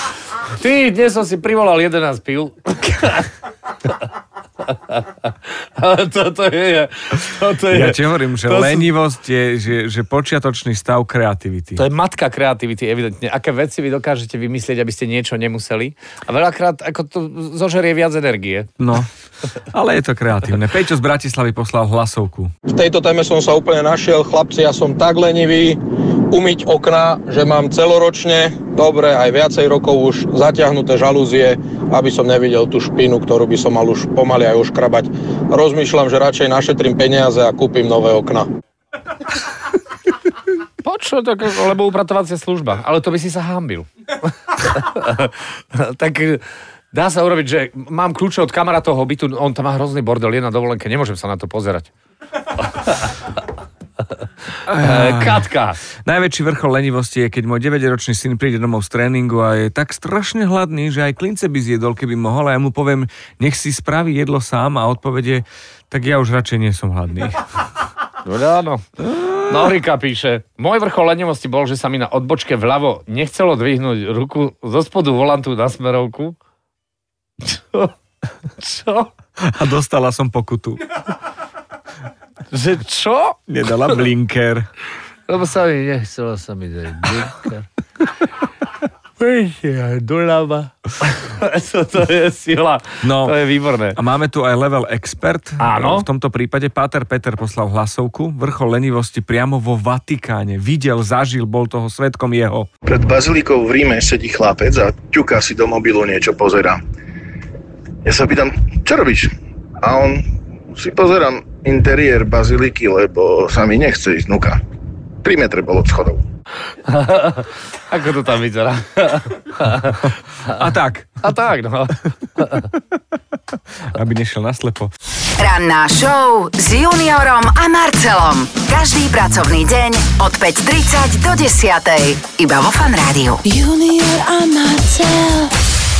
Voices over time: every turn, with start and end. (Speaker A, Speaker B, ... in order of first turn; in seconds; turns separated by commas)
Speaker A: 0.3-3.3, Speaker A: 4.6-8.9, Speaker B: 7.7-11.8, Speaker A: 11.8-18.7, Speaker B: 18.8-19.1, Speaker B: 19.7-22.5, Speaker C: 22.7-25.8, Speaker C: 26.3-38.5, Speaker A: 40.8-51.9, Speaker A: 52.5-53.3, Speaker B: 54.7-55.5, Speaker A: 54.7-55.8, Speaker B: 56.0-67.5, Speaker A: 68.2-76.4, Speaker B: 69.1-69.4, Speaker A: 77.4-79.1, Speaker B: 79.4-80.8, Speaker A: 82.5-83.4, Speaker B: 83.5-84.7, Speaker A: 85.3-88.2, Speaker A: 89.2-94.0, Speaker B: 93.0-93.3, Speaker B: 93.9-102.7, Speaker A: 95.6-96.0, Speaker D: 102.9-106.8, Speaker D: 108.0-114.6, Speaker D: 115.2-116.2, Speaker A: 116.8-120.6, Speaker B: 120.5-121.2, Speaker A: 121.2-122.7, Speaker B: 123.9-124.9, Speaker E: 125.4-133.4, Speaker F: 133.4-135.5